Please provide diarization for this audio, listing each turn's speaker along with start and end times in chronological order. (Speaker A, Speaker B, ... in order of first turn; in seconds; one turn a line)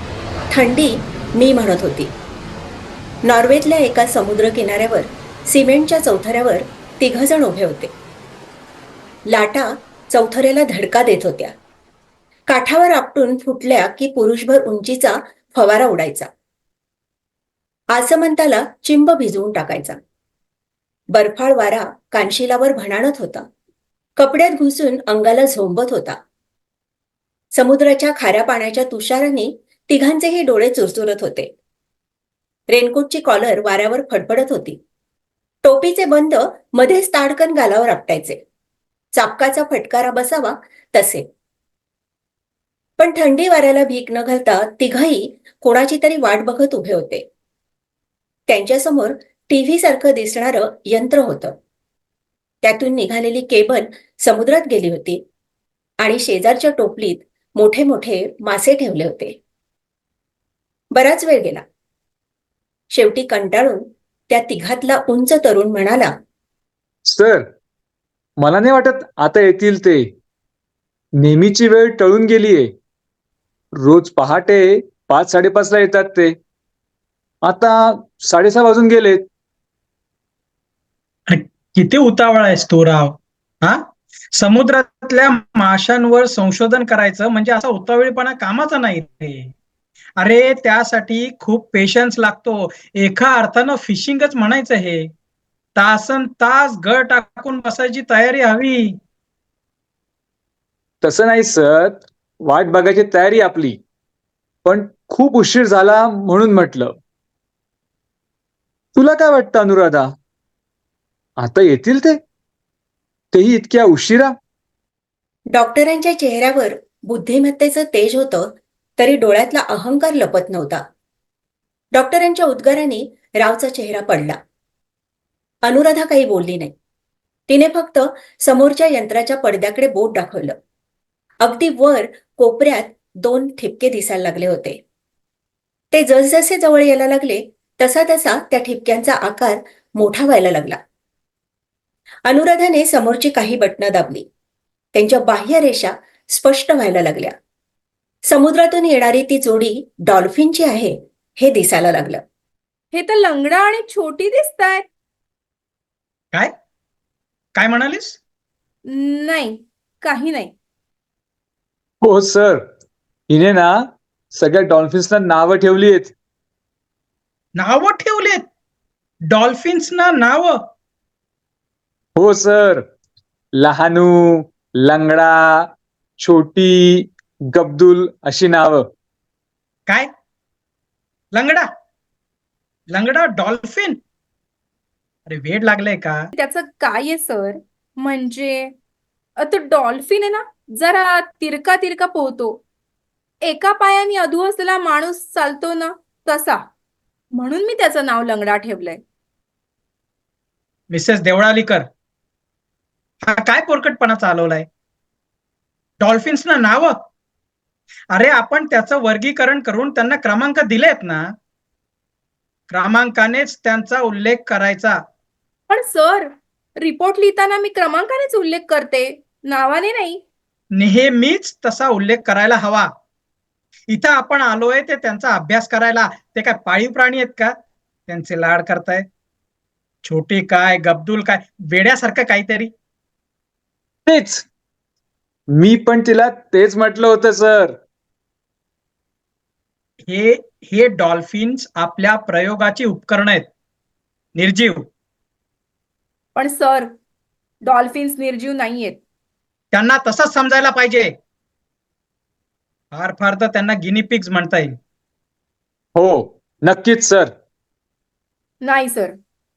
Speaker A: 0.5-2.1
Speaker A: 3.2-7.9
Speaker A: 9.3-11.5
Speaker A: 12.5-16.3
Speaker A: 17.9-20.0
Speaker A: 21.1-23.4
Speaker A: 24.2-26.2
Speaker A: 27.5-31.5
Speaker A: 32.7-34.8
Speaker A: 35.6-38.4
Speaker A: 39.1-41.3
Speaker A: 43.0-47.2
Speaker A: 48.5-51.6
Speaker A: 52.6-55.2
Speaker A: 56.0-59.4
Speaker A: 60.9-61.6
Speaker A: 62.9-66.1
Speaker B: 67.1-67.5
Speaker B: 68.4-70.1
Speaker B: 71.2-72.7
Speaker B: 73.8-76.3
Speaker B: 77.4-79.2
Speaker C: 81.3-89.5
Speaker C: 90.2-95.1
Speaker C: 95.8-99.0
Speaker B: 101.0-103.8
Speaker B: 104.6-107.0
Speaker B: 108.9-110.1
Speaker B: 111.4-112.2
Speaker B: 113.3-114.3
Speaker A: 115.5-120.8
Speaker A: 121.9-124.4
Speaker A: 125.6-126.7
Speaker A: 127.5-130.6
Speaker A: 131.4-134.8
Speaker A: 135.9-140.8
Speaker A: 142.2-144.2
Speaker A: 144.9-147.3
Speaker A: 148.2-152.2
Speaker D: 152.9-154.8
Speaker C: 157.5-158.2
Speaker D: 158.9-160.5
Speaker B: 162.0-162.6
Speaker B: 163.3-166.1
Speaker C: 167.6-168.4
Speaker C: 169.3-170.6
Speaker B: 172.2-172.8
Speaker B: 173.6-175.7
Speaker B: 176.2-178.9
Speaker C: 181.3-181.7
Speaker C: 182.9-184.0
Speaker C: 185.3-186.3
Speaker D: 186.3-188.7
Speaker D: 189.4-192.6
Speaker D: 193.4-196.6
Speaker D: 197.3-199.0
Speaker C: 200.9-201.8
Speaker C: 203.2-204.7
Speaker C: 206.0-207.0
Speaker C: 208.1-211.3
Speaker C: 212.7-215.0
Speaker D: 215.7-220.2
Speaker C: 220.7-222.9
Speaker C: 223.9-227.5
Speaker C: 228.1-229.1
Speaker C: 230.0-232.7
Speaker B: 234.1-234.4
Speaker B: 235.5-237.8
Speaker C: 240.0-243.5
Speaker C: 244.3-244.9
Speaker D: 246.3-246.9
Speaker D: 247.6-249.0
Speaker C: 249.7-251.1
Speaker C: 252.9-254.8
Speaker B: 255.9-257.3
Speaker D: 258.6-259.1